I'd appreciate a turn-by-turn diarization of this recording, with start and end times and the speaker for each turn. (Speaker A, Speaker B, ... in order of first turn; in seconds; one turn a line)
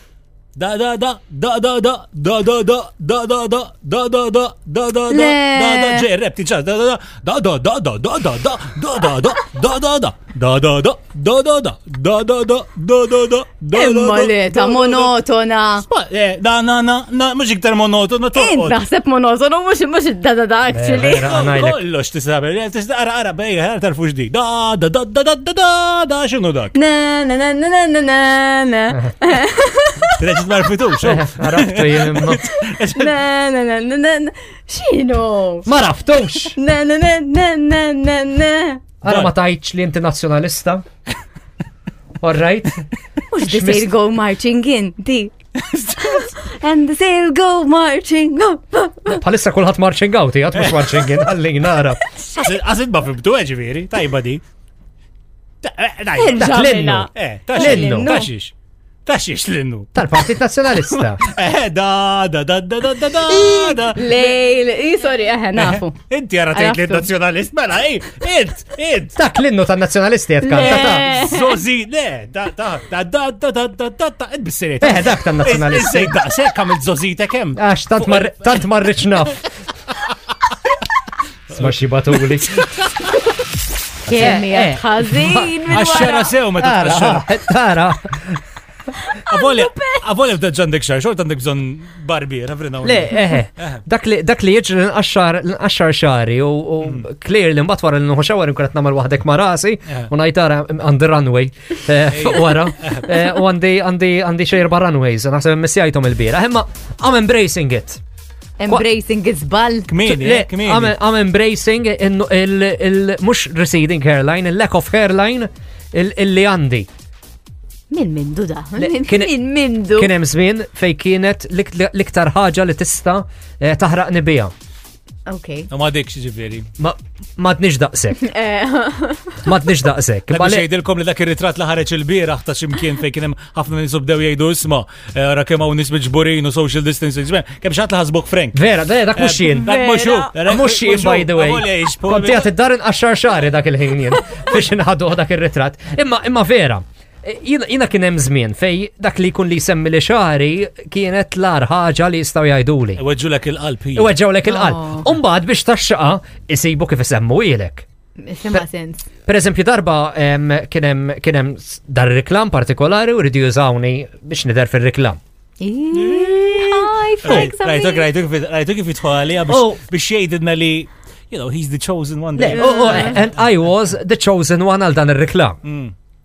Speaker A: 0.5-15.1
Speaker B: 5.1-6.0
Speaker B: 13.7-15.8
Speaker A: 15.8-18.8
Speaker B: 18.3-21.3
Speaker C: 20.7-21.8
Speaker A: 21.0-26.7
Speaker B: 26.7-30.1
Speaker A: 30.1-33.1
Speaker C: 31.0-32.4
Speaker B: 32.3-35.7
Speaker C: 35.6-36.5
Speaker B: 36.5-38.8
Speaker C: 39.0-40.8
Speaker A: 39.0-39.3
Speaker C: 42.2-42.9
Speaker B: 43.3-45.3
Speaker C: 43.4-43.9
Speaker A: 45.5-46.3
Speaker B: 46.0-49.2
Speaker C: 49.1-52.0
Speaker A: 50.5-51.2
Speaker A: 52.4-54.4
Speaker A: 55.6-56.5
Speaker B: 56.1-58.3
Speaker C: 56.3-58.1
Speaker A: 57.1-58.5
Speaker A: 59.0-60.2
Speaker C: 59.9-61.2
Speaker A: 60.9-64.4
Speaker B: 63.2-66.0
Speaker A: 65.5-69.2
Speaker B: 66.5-67.1
Speaker C: 69.2-71.2
Speaker B: 70.4-71.5
Speaker A: 70.6-78.6
Speaker C: 74.8-76.2
Speaker C: 77.5-79.4
Speaker C: 81.5-82.7
Speaker A: 82.2-83.0
Speaker C: 84.1-85.5
Speaker B: 84.1-86.3
Speaker A: 85.7-87.2
Speaker C: 86.6-88.4
Speaker A: 89.3-93.8
Speaker B: 89.3-90.0
Speaker C: 92.8-108.0
Speaker B: 92.9-93.4
Speaker A: 102.1-103.1
Speaker B: 108.6-109.9
Speaker A: 109.9-110.9
Speaker C: 110.0-116.9
Speaker B: 117.9-120.1
Speaker C: 118.8-119.4
Speaker C: 119.9-124.5
Speaker B: 125.3-125.7
Speaker A: 125.7-126.7
Speaker C: 126.8-128.2
Speaker B: 128.2-129.5
Speaker C: 129.4-130.7
Speaker A: 130.3-138.6
Speaker C: 138.5-139.7
Speaker A: 139.2-142.5
Speaker B: 139.6-140.3
Speaker C: 140.4-153.0
Speaker A: 152.9-154.1
Speaker C: 153.9-157.8
Speaker B: 154.4-155.1
Speaker B: 158.2-159.1
Speaker C: 159.2-165.2
Speaker B: 165.6-168.1
Speaker A: 165.9-173.3
Speaker C: 167.2-167.5
Speaker C: 169.5-169.8
Speaker C: 172.4-175.6
Speaker B: 172.5-173.2
Speaker A: 175.6-175.9